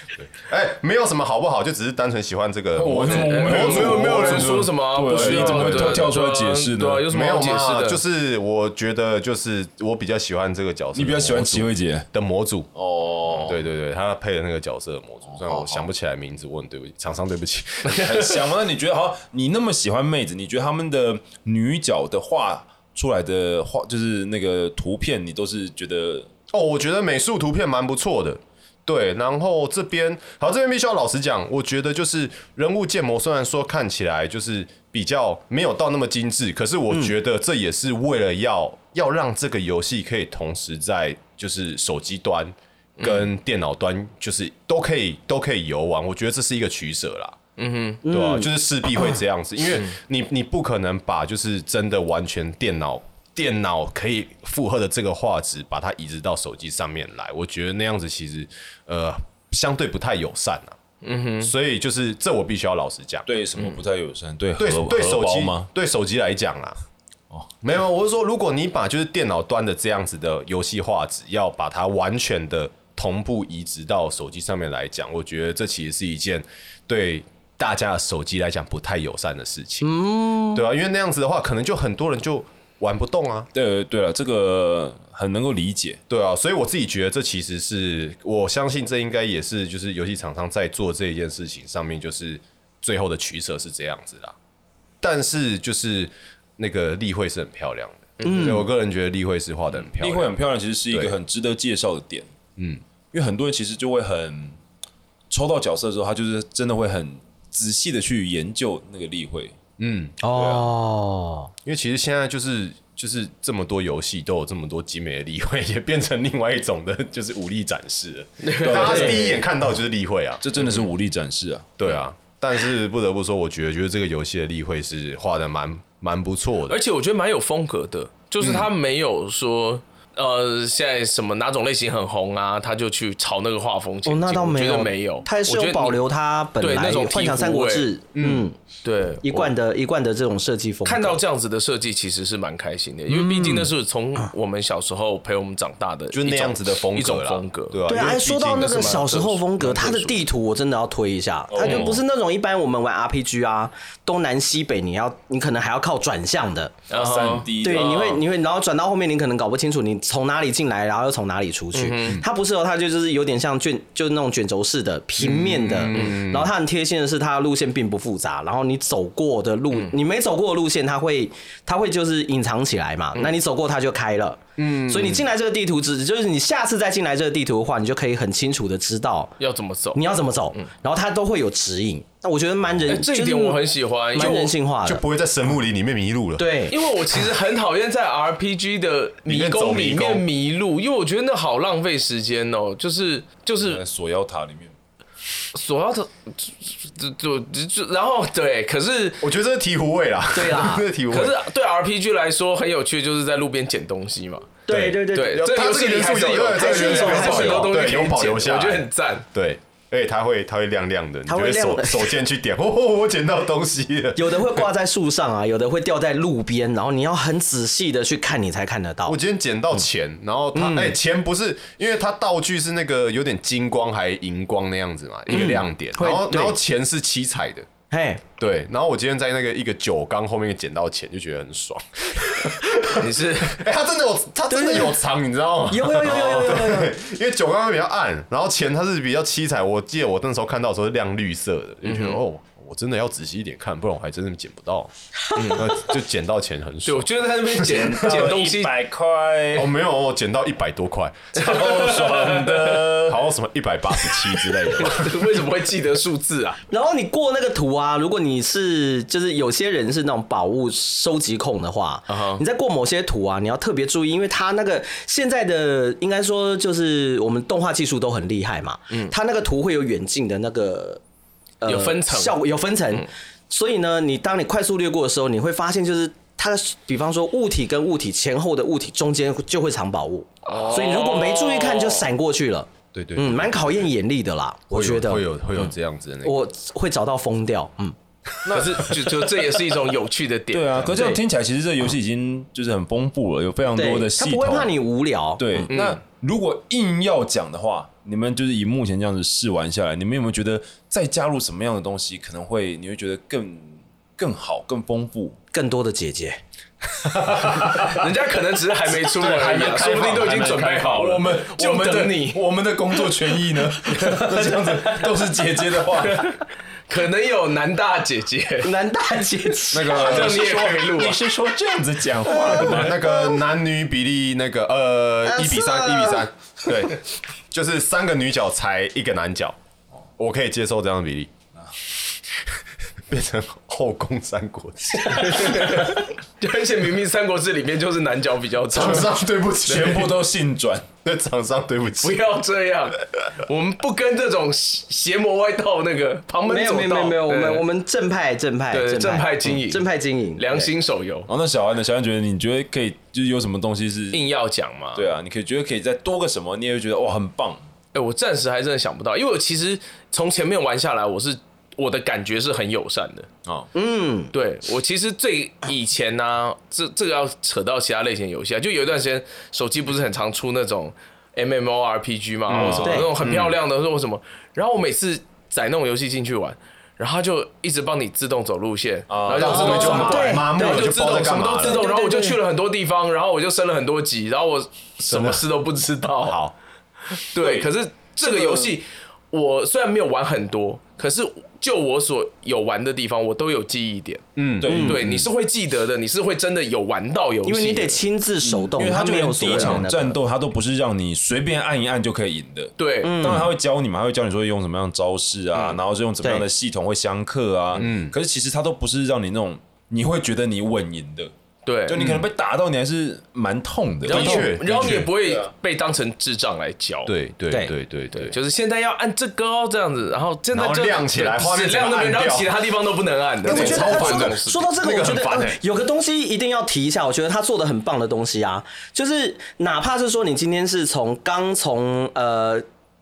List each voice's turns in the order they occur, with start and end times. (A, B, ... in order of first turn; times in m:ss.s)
0:00.2-0:06.1 A
0:02.8-0:07.1 B
0:03.0-0:08.0 C
0:07.1-0:12.7 A
0:10.9-0:12.1 B
0:12.7-0:13.6 B
0:13.4-0:18.3 A
0:15.3-0:15.8 B
0:17.9-0:26.3 B
0:26.5-0:47.4 A
0:43.0-0:43.3 C
0:47.6-0:48.0 C
0:48.0-0:48.5 D
0:48.1-1:00.8 A
1:01.0-1:01.5 C
1:01.4-1:03.3 A
1:03.2-1:05.7 B
1:04.6-1:06.8 A
1:07.6-1:19.9 A
1:19.8-1:20.6 D
1:20.5-1:23.5 A
1:23.5-1:26.0 B
1:26.1-1:34.3 A
1:35.0-1:40.4 A
1:38.2-1:38.7 D
1:40.0-1:42.3 B
1:40.9-1:41.1 A
1:42.6-1:42.8 A
1:43.1-1:44.6 B
1:45.3-1:49.6 B
1:49.8-1:50.2 A
1:50.2-1:51.5 D
1:50.3-1:50.7 B
1:51.6-2:00.7 A
1:58.4-1:59.4 C
1:58.7-1:59.2 B
1:58.8-1:59.2 D
2:00.4-2:01.7 B
2:01.8-2:06.8 A
2:06.7-2:16.0 C
2:08.4-2:08.7 A
2:14.0-2:18.6 D
2:16.6-2:17.9 C
2:18.1-2:18.5 A
2:18.8-2:19.5 C
2:19.2-2:21.2 D
2:20.8-2:30.3 C
2:23.1-2:23.7 D
2:26.1-2:29.1 A
2:27.9-2:36.8 D
2:31.5-2:32.0 B
2:31.6-2:32.0 C
2:36.9-2:38.2 C
2:36.9-2:38.2 B
2:37.6-2:59.3 D
2:41.7-2:42.2 C
2:45.2-2:46.5 A
2:45.9-2:46.2 C
2:54.6-2:55.3 A
2:59.4-3:00.0 C
2:59.9-3:03.6 D
3:02.9-3:04.5 C
3:04.1-3:05.0 D
3:04.8-3:06.6 A
3:06.4-3:06.7 D
3:06.7-3:13.8 C
3:09.2-3:10.3 A
3:13.6-3:14.7 B
3:15.5-3:19.2 C
3:19.2-3:21.4 A
3:20.3-3:20.8 D
3:21.1-3:29.2 C
3:24.7-3:25.5 D
3:24.7-3:34.6 A
3:26.5-3:27.8 D
3:31.3-3:32.2 D
3:34.2-3:39.2 D
3:39.0-3:47.7 A
3:40.5-3:41.0 D
3:45.3-3:46.6 D
3:47.9-3:48.2 D
3:48.4-4:04.9 A
3:52.9-3:53.6 C
3:54.5-3:55.0 D
3:55.7-3:56.9 D
4:01.8-4:02.2 C
4:05.4-4:05.7 C
4:05.5-4:08.3 A
4:06.8-4:08.7 C
4:07.6-4:09.7 B
4:09.5-4:11.7 A
4:11.4-4:13.2 B
4:11.5-4:12.9 C
4:13.0-4:15.3 A
4:14.7-4:16.6 C
4:16.7-4:31.0 D
4:22.1-4:22.4 C
4:31.6-4:45.7 D
4:31.6-4:32.4 C
4:40.4-4:42.0 C
4:42.9-4:43.9 A
4:44.7-4:46.4 A
4:46.2-4:47.9 D
4:48.4-4:48.9 B
4:48.5-4:51.1 C
4:50.5-4:54.7 B
4:50.9-4:51.2 D
4:53.7-4:55.7 D
4:55.4-5:05.4 B
4:55.7-4:56.0 C
5:05.5-5:06.4 D
5:07.1-5:08.1 B
5:07.7-5:12.4 C
5:08.9-5:16.3 B
5:14.0-5:15.0 C
5:16.0-5:18.7 C
5:18.6-5:20.3 D
5:19.7-5:23.0 B
5:19.8-5:20.4 A
5:19.8-5:21.2 C
5:22.3-5:23.4 D
5:22.6-5:27.0 A
5:25.2-5:26.3 D
5:27.5-5:29.6 A
5:30.2-5:31.3 A
5:33.1-5:35.9 A
5:35.0-5:39.1 C
5:38.7-5:40.1 A
5:39.6-5:40.9 B
5:41.0-5:42.2 A
5:42.0-5:47.6 C
5:46.4-5:50.7 D
5:48.7-5:51.3 C
5:51.3-5:54.3 B
5:54.1-5:55.1 C
5:54.9-5:57.6 B
5:57.9-6:03.3 C
6:03.7-6:04.3 D
6:04.3-6:26.4 C
6:12.5-6:12.8 A
6:12.5-6:13.5 B
6:12.8-6:13.1 D
6:19.1-6:20.3 B
6:19.3-6:21.8 A
6:19.4-6:20.9 D
6:21.6-6:22.4 D
6:25.1-6:25.4 A
6:26.2-6:26.5 A
6:27.1-6:38.0 C
6:28.2-6:28.7 D
6:34.4-6:34.7 A
6:34.6-6:35.3 B
6:34.6-6:35.0 D
6:37.4-6:40.2 D
6:38.4-6:51.3 B
6:39.4-6:39.8 C
6:42.8-6:43.3 C
6:43.0-6:43.5 D
6:47.7-6:48.1 A
6:51.6-6:52.2 C
6:51.9-6:55.5 B
6:54.1-6:54.5 D
6:54.1-6:55.1 A
6:54.1-6:57.1 C
6:57.0-6:58.3 A
6:58.1-7:04.7 C
7:00.5-7:02.5 A
7:03.4-7:05.6 A
7:03.4-7:12.6 D